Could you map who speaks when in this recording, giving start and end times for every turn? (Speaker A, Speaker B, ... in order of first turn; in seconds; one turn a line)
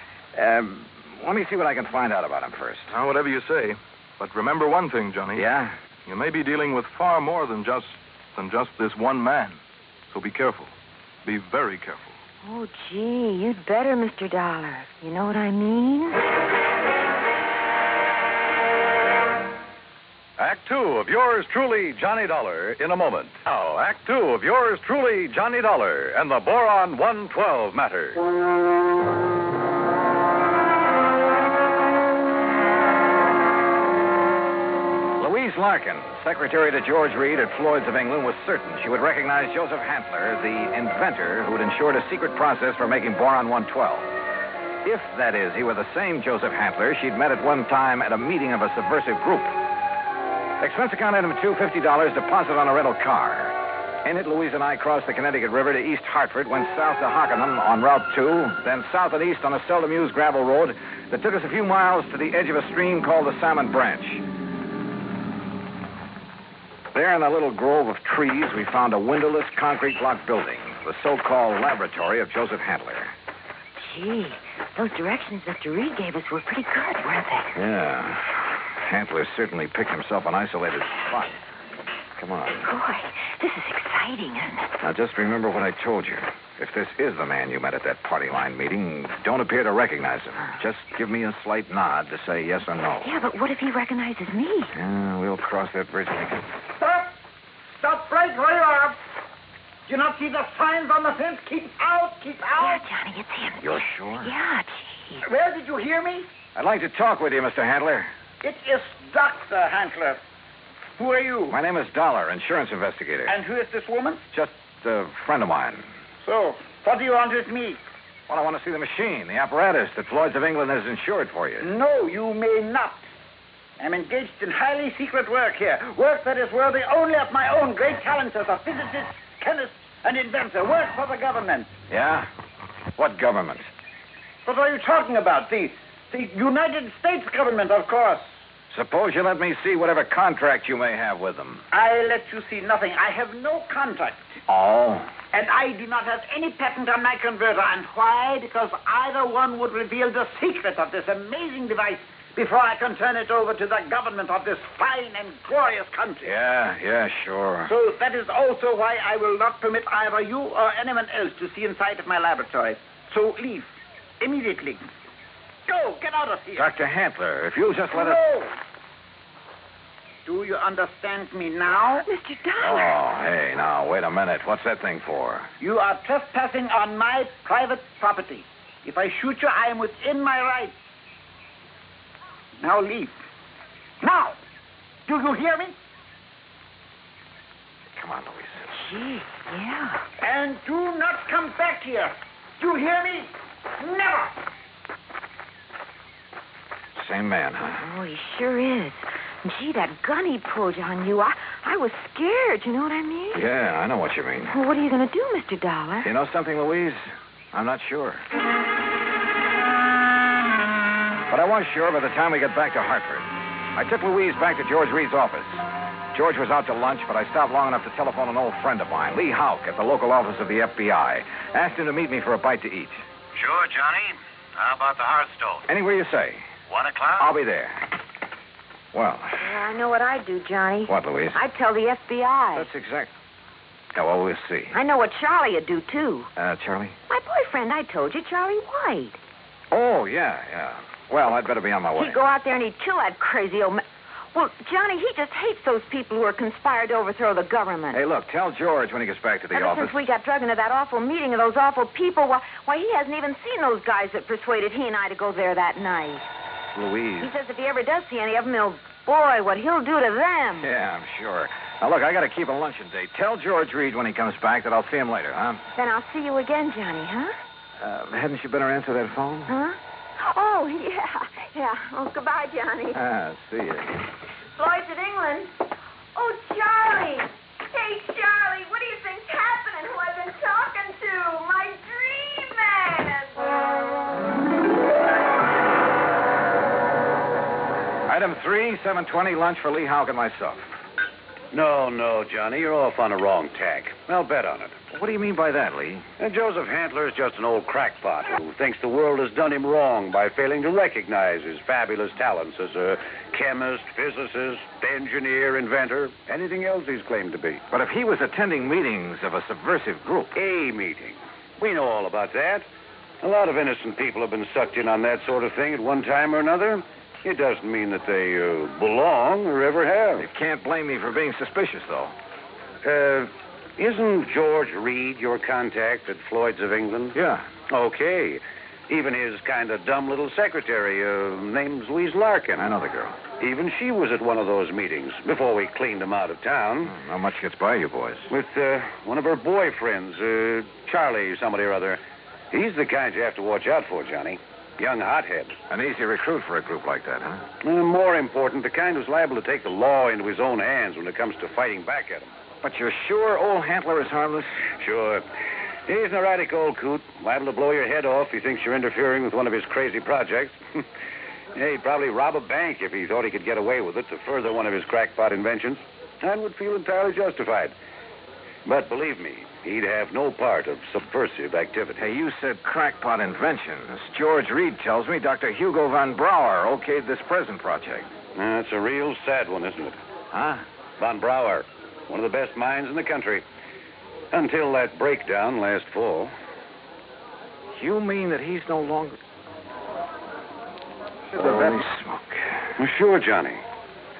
Speaker A: 0.3-2.9
Speaker B: 2.9-5.5
Speaker A: 5.3-5.8
Speaker B: 6.1-9.6
Speaker B: 10.1-10.7
Speaker B: 11.2-12.2
Speaker C: 12.4-16.2
Speaker D: 20.4-28.2
Speaker A: 35.2-44.1
Speaker A: 44.8-49.5
Speaker A: 50.6-64.2
Speaker A: 66.9-73.1
Speaker C: 73.8-77.6
Speaker A: 77.5-81.4
Speaker A: 82.2-82.7
Speaker C: 82.6-84.7
Speaker A: 84.8-93.2
Speaker C: 93.0-94.7
Speaker A: 94.7-96.5
Speaker E: 96.8-97.2
Speaker E: 97.7-99.0
Speaker E: 99.9-102.8
Speaker C: 102.6-105.2
Speaker A: 103.6-104.3
Speaker E: 105.2-106.3
Speaker A: 106.5-108.1
Speaker E: 108.4-110.2
Speaker E: 111.0-111.6
Speaker A: 111.5-113.4
Speaker E: 113.3-114.2
Speaker A: 114.3-115.9
Speaker E: 116.2-117.8
Speaker A: 118.3-121.7
Speaker E: 121.6-123.1
Speaker E: 123.8-131.7
Speaker A: 131.9-132.3
Speaker A: 133.0-133.7
Speaker E: 134.4-138.3
Speaker A: 138.7-141.7
Speaker E: 141.7-144.4
Speaker A: 144.5-145.1
Speaker E: 145.3-156.3
Speaker A: 156.2-157.7
Speaker E: 157.7-164.9
Speaker E: 165.7-166.7
Speaker A: 166.6-168.2
Speaker E: 167.9-168.6
Speaker E: 170.2-172.1
Speaker C: 172.0-172.9
Speaker A: 172.6-175.5
Speaker E: 175.6-180.8
Speaker E: 182.6-183.2
Speaker E: 184.0-184.4
Speaker E: 185.1-185.8
Speaker A: 188.0-188.7
Speaker C: 188.7-190.0
Speaker E: 190.2-194.4
Speaker A: 197.0-197.9
Speaker C: 197.8-203.4
Speaker A: 203.3-204.5
Speaker C: 204.5-206.1
Speaker A: 206.0-207.0
Speaker A: 207.5-208.2
Speaker A: 211.3-223.0
Speaker F: 223.3-225.6
Speaker A: 225.7-226.5
Speaker F: 226.7-227.3
Speaker A: 227.2-227.8
Speaker A: 228.9-229.5
Speaker C: 229.4-232.7
Speaker A: 230.9-231.4
Speaker A: 232.6-233.1
Speaker A: 233.9-234.8
Speaker C: 234.7-236.3
Speaker A: 236.4-237.0
Speaker C: 237.1-239.2
Speaker A: 239.7-242.2
Speaker C: 242.0-243.8
Speaker C: 244.3-248.0
Speaker A: 247.9-250.0
Speaker C: 249.5-256.3
Speaker A: 256.8-257.3
Speaker C: 257.2-260.7
Speaker A: 260.6-265.6
Speaker C: 265.8-267.3
Speaker A: 267.8-269.6
Speaker C: 269.5-273.0
Speaker A: 272.9-274.0
Speaker C: 274.4-275.5
Speaker C: 276.1-283.4
Speaker A: 288.1-290.7
Speaker F: 291.5-294.8
Speaker A: 294.9-296.1
Speaker F: 296.2-307.6
Speaker A: 307.7-310.3
Speaker F: 310.4-312.7
Speaker F: 313.2-320.2
Speaker A: 320.2-322.1
Speaker F: 322.8-327.1
Speaker A: 327.1-327.5
Speaker F: 327.7-332.7
Speaker A: 332.6-333.2
Speaker F: 333.4-336.9
Speaker A: 336.9-338.3
Speaker F: 338.3-342.0
Speaker F: 342.5-345.6
Speaker A: 345.7-347.4
Speaker F: 347.6-352.3
Speaker A: 352.6-354.6
Speaker F: 354.8-355.2
Speaker F: 355.9-360.8
Speaker F: 361.6-367.8
Speaker F: 368.6-372.1
Speaker A: 371.9-378.1
Speaker F: 378.4-380.0
Speaker A: 380.3-380.6
Speaker F: 381.0-383.4
Speaker F: 384.3-386.3
Speaker A: 387.7-389.2
Speaker A: 391.3-392.6
Speaker F: 392.8-393.6